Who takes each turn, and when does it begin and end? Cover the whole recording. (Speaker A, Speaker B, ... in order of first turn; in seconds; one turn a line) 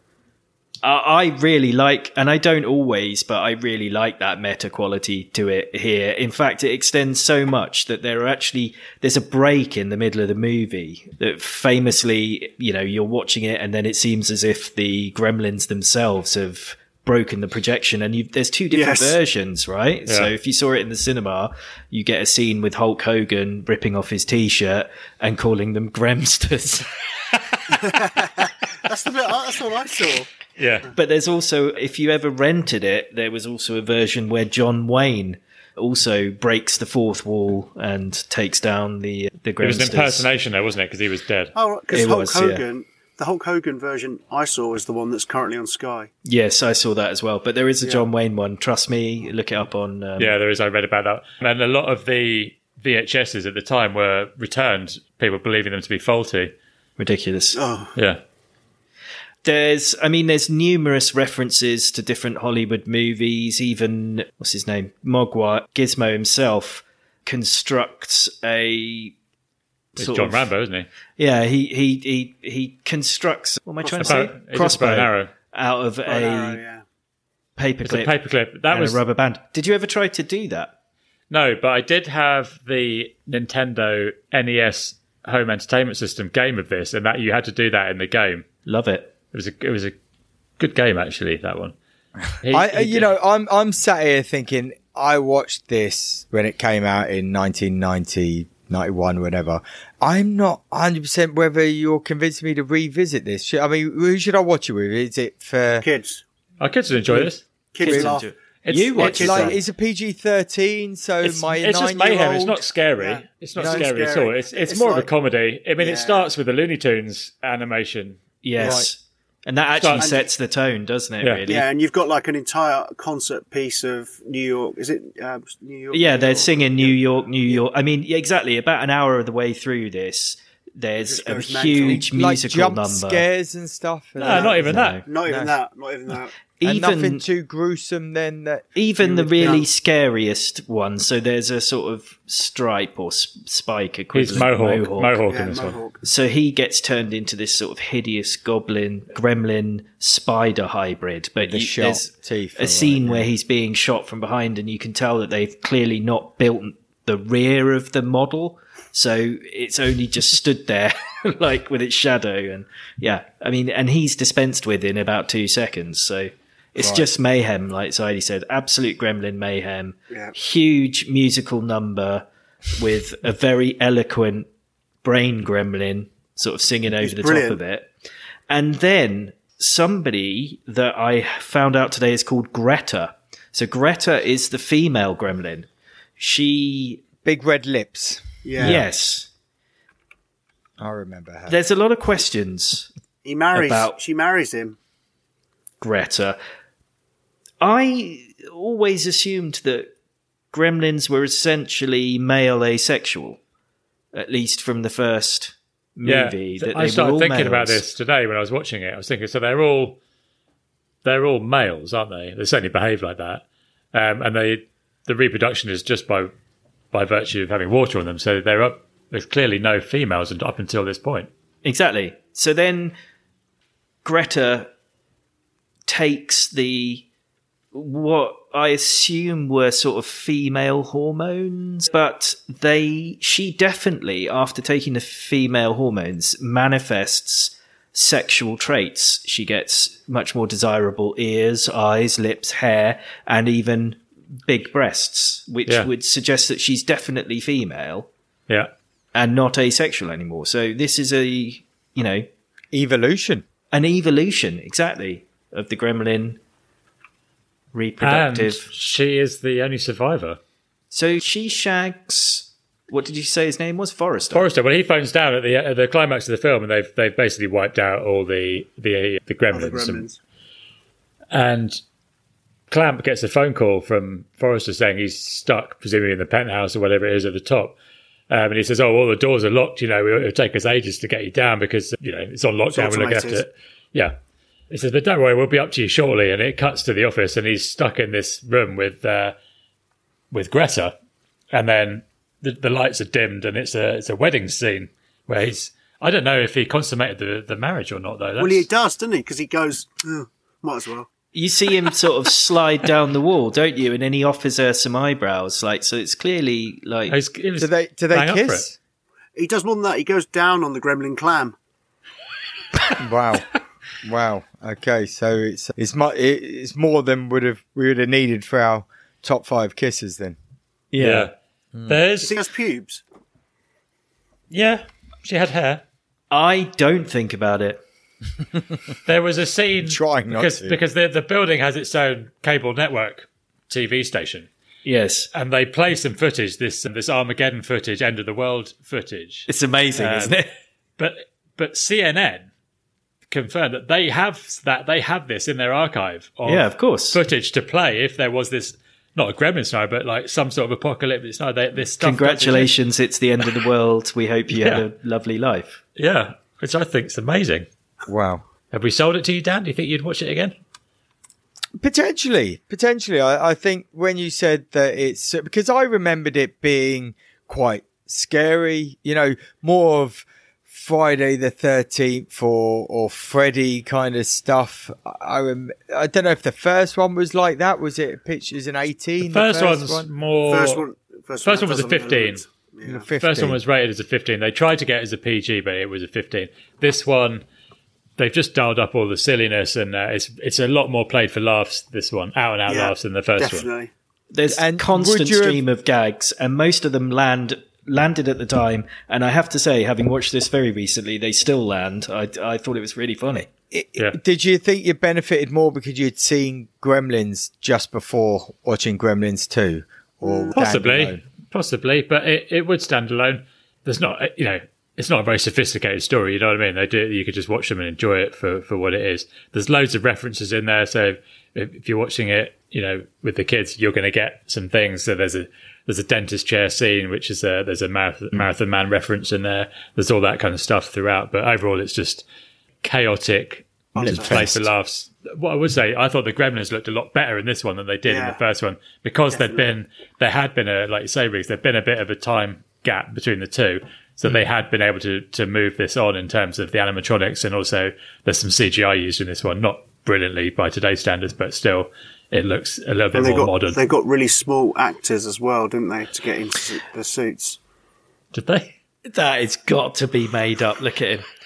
Speaker A: 0.8-26.9
Speaker B: 18.7-19.2
Speaker C: 20.1-20.3
Speaker B: 27.7-30.3
Speaker C: 30.6-30.9
Speaker A: 30.9-40.3
Speaker C: 39.6-41.5
Speaker B: 41.5-46.1
Speaker A: 41.9-42.6
Speaker A: 46.2-50.4
Speaker B: 47.8-48.1
Speaker C: 50.2-56.5
Speaker A: 57.0-57.6
Speaker B: 57.5-57.9
Speaker C: 58.0-58.2
Speaker A: 59.4-69.1
Speaker A: 70.0-70.5
Speaker C: 70.0-70.9
Speaker A: 71.2-76.6
Speaker B: 73.8-74.2
Speaker C: 74.0-75.3
Speaker B: 76.0-76.8
Speaker A: 77.6-78.1
Speaker C: 77.8-79.0
Speaker A: 78.7-80.7
Speaker C: 81.3-88.5
Speaker A: 88.7-89.1
Speaker C: 89.3-90.0
Speaker C: 90.6-91.8
Speaker C: 92.4-93.1
Speaker D: 92.5-105.9
Speaker B: 105.8-106.2
Speaker C: 106.6-108.0
Speaker B: 107.7-108.3
Speaker D: 107.8-108.2
Speaker A: 107.8-109.6
Speaker C: 108.6-109.2
Speaker B: 109.0-109.6
Speaker D: 109.0-112.6
Speaker C: 111.2-118.2
Speaker B: 113.0-115.1
Speaker D: 113.6-113.9
Speaker B: 115.8-116.3
Speaker A: 118.4-121.7
Speaker B: 118.6-118.8
Speaker D: 118.6-118.9
Speaker C: 119.8-120.1
Speaker B: 120.0-120.3
Speaker B: 121.5-127.6
Speaker A: 125.9-133.3
Speaker B: 131.0-132.1
Speaker D: 131.9-134.7
Speaker C: 134.2-135.0
Speaker B: 134.2-136.4
Speaker A: 134.5-135.1
Speaker D: 135.2-135.6
Speaker A: 136.6-137.2
Speaker D: 136.6-139.7
Speaker A: 138.8-174.5
Speaker C: 144.1-145.7
Speaker B: 145.3-146.0
Speaker D: 151.4-153.3
Speaker D: 166.8-167.1
Speaker A: 175.0-177.9
Speaker B: 177.0-177.6
Speaker A: 178.5-187.0
Speaker D: 187.2-188.8
Speaker B: 188.4-188.8
Speaker A: 188.6-189.3
Speaker D: 190.8-191.6
Speaker A: 191.5-192.9
Speaker B: 193.2-194.8
Speaker A: 193.5-194.0
Speaker A: 195.8-196.4
Speaker A: 197.6-199.9
Speaker A: 200.5-203.4
Speaker A: 204.1-207.9
Speaker C: 206.0-210.0
Speaker C: 211.0-216.3
Speaker C: 216.9-221.3
Speaker A: 221.6-222.9
Speaker A: 224.0-224.7
Speaker A: 225.9-227.1
Speaker A: 227.7-248.1
Speaker A: 249.1-252.3
Speaker D: 252.7-253.4
Speaker A: 253.7-256.4
Speaker A: 257.7-258.7
Speaker C: 258.0-260.4
Speaker A: 260.9-264.5
Speaker C: 264.3-270.1
Speaker B: 269.5-270.2
Speaker C: 271.3-271.8
Speaker C: 272.7-277.8
Speaker C: 278.3-284.1
Speaker B: 282.7-283.4
Speaker C: 284.7-289.4
Speaker C: 290.3-290.9
Speaker C: 291.5-298.7
Speaker B: 298.4-301.1
Speaker A: 301.3-307.1
Speaker C: 307.1-308.7
Speaker D: 307.6-308.8
Speaker B: 309.4-311.6
Speaker D: 313.0-313.5
Speaker D: 314.0-320.4
Speaker A: 320.9-321.3
Speaker C: 321.0-321.3
Speaker C: 321.9-322.4
Speaker B: 322.2-323.0
Speaker C: 324.5-325.8
Speaker A: 326.3-327.8
Speaker C: 329.1-334.5
Speaker D: 329.9-330.8
Speaker A: 334.9-335.3
Speaker C: 335.3-340.4
Speaker A: 339.5-340.5
Speaker C: 341.0-342.5
Speaker C: 343.3-352.7
Speaker A: 346.5-347.2
Speaker A: 352.0-355.8
Speaker C: 354.5-354.9
Speaker C: 356.0-357.7
Speaker D: 358.1-358.4
Speaker C: 358.7-360.6
Speaker D: 361.8-380.1
Speaker C: 379.2-380.9
Speaker B: 380.5-383.1
Speaker C: 381.4-382.4
Speaker D: 382.9-383.6
Speaker C: 383.2-387.4
Speaker C: 388.2-393.7
Speaker B: 392.7-393.9
Speaker A: 394.3-403.5
Speaker D: 394.5-395.6
Speaker D: 403.7-411.2
Speaker B: 410.2-410.6
Speaker C: 410.6-432.2
Speaker C: 432.8-453.8
Speaker B: 433.9-434.6
Speaker B: 438.1-438.4
Speaker B: 439.3-439.7
Speaker B: 453.1-457.6
Speaker C: 458.3-458.7
Speaker A: 459.1-461.2